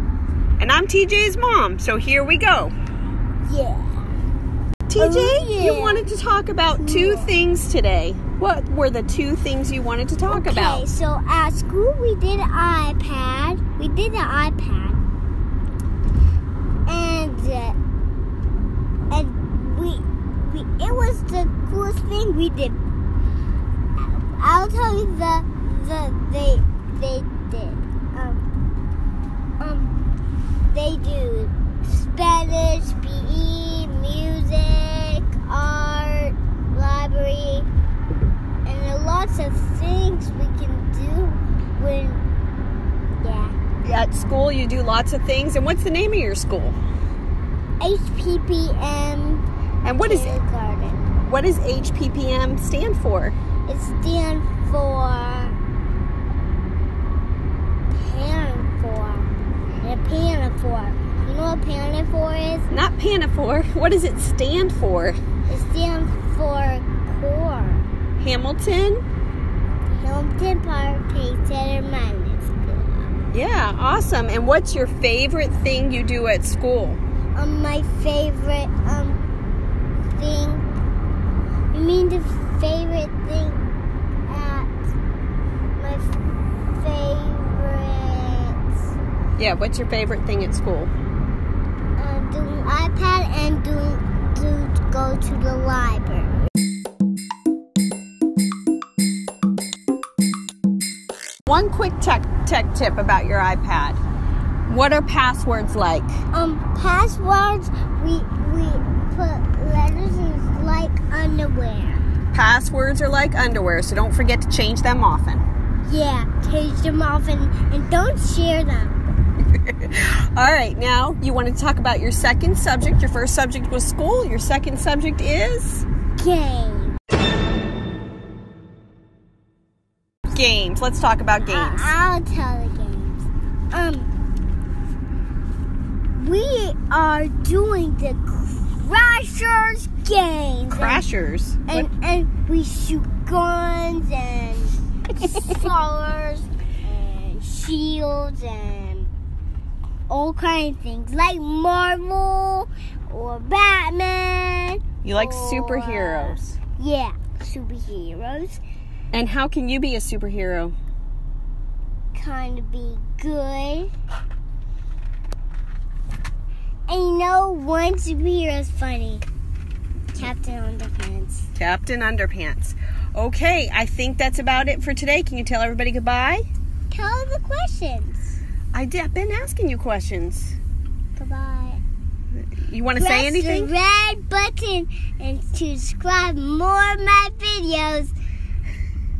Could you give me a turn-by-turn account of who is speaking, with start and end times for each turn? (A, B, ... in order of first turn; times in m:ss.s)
0:00.6-0:02.7 A
0:03.4-0:04.1 B
0:04.9-0:10.8 A
0:05.0-0:06.1 B
0:06.7-0:07.3 B
0:10.3-0:15.0 B
0:16.8-0:17.8 B
0:19.1-0:22.8 B
0:24.0-0:28.4 B
0:29.6-0:29.9 B
0:30.7-0:37.7 B
0:38.6-0:42.2 B
0:43.1-0:43.5 B
0:43.8-0:46.8 A
0:47.8-0:49.4 B
0:49.8-0:50.4 A
0:50.0-0:51.1 B
0:51.2-0:53.4 A
0:53.7-0:55.6 B
0:57.9-0:59.3 B
0:59.8-1:02.7 B
1:02.7-1:05.2 A
1:05.5-1:07.8 B
1:08.2-1:09.0 A
1:09.9-1:13.2 B
1:13.3-1:17.0 A
1:17.3-1:19.2 B
1:20.1-1:20.7 B
1:21.7-1:23.6 B
1:24.3-1:24.9 B
1:25.8-1:28.9 B
1:29.4-1:30.9 A
1:32.0-1:36.5 B
1:41.4-1:44.0 A
1:44.7-1:46.2 A
1:46.3-1:52.0 B
1:52.3-1:55.4 A
1:55.8-1:59.0 B
1:59.6-2:05.8 A
2:06.2-2:07.0 B
2:10.3-2:11.9 A
2:11.4-2:14.1 B
2:16.2-2:21.0 B
2:20.7-2:21.9 A
2:21.7-2:29.1 B
2:30.1-2:38.6 B
2:35.0-2:36.6 A
2:39.1-2:40.8 A
2:42.1-2:43.9 B
2:46.9-2:49.2 B
2:50.1-2:51.5 B
2:51.6-2:56.4 A
2:56.9-2:58.4 B
2:58.7-3:00.5 A
3:01.2-3:01.8 B
3:02.3-3:03.7 A
3:02.9-3:08.1 B